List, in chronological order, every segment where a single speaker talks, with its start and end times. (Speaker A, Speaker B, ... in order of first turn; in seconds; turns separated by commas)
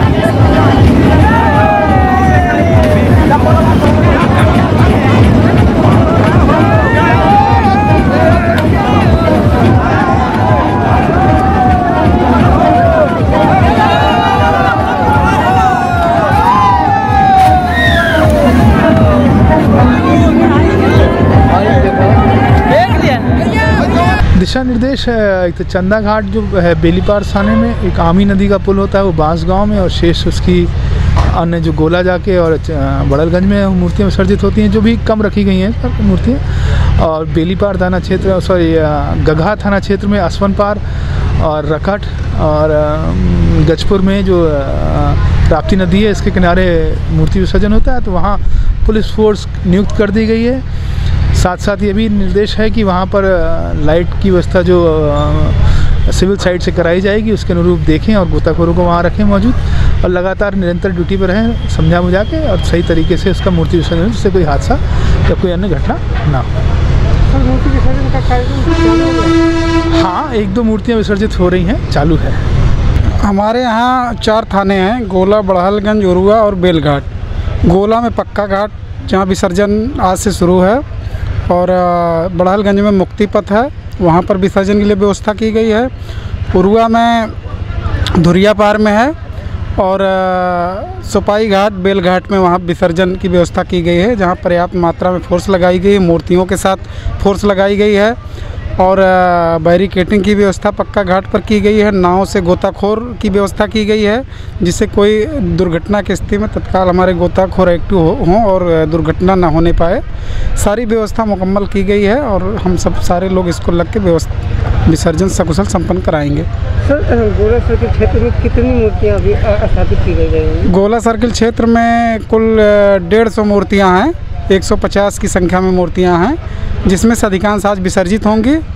Speaker A: 24.4-30.7, Speaker A: 31.2-40.8, Speaker A: 41.4-50.6, Speaker A: 51.3-66.5, Speaker B: 67.3-69.4, Speaker A: 69.9-72.4, Speaker C: 73.2-77.1, Speaker C: 77.7-80.8, Speaker C: 81.5-85.9, Speaker C: 86.5-87.3, Speaker C: 88.2-89.1, Speaker C: 89.8-98.2, Speaker C: 98.8-110.0, Speaker C: 110.6-114.3, Speaker C: 114.9-116.5, Speaker B: 116.8-120.7, Speaker C: 120.7-128.6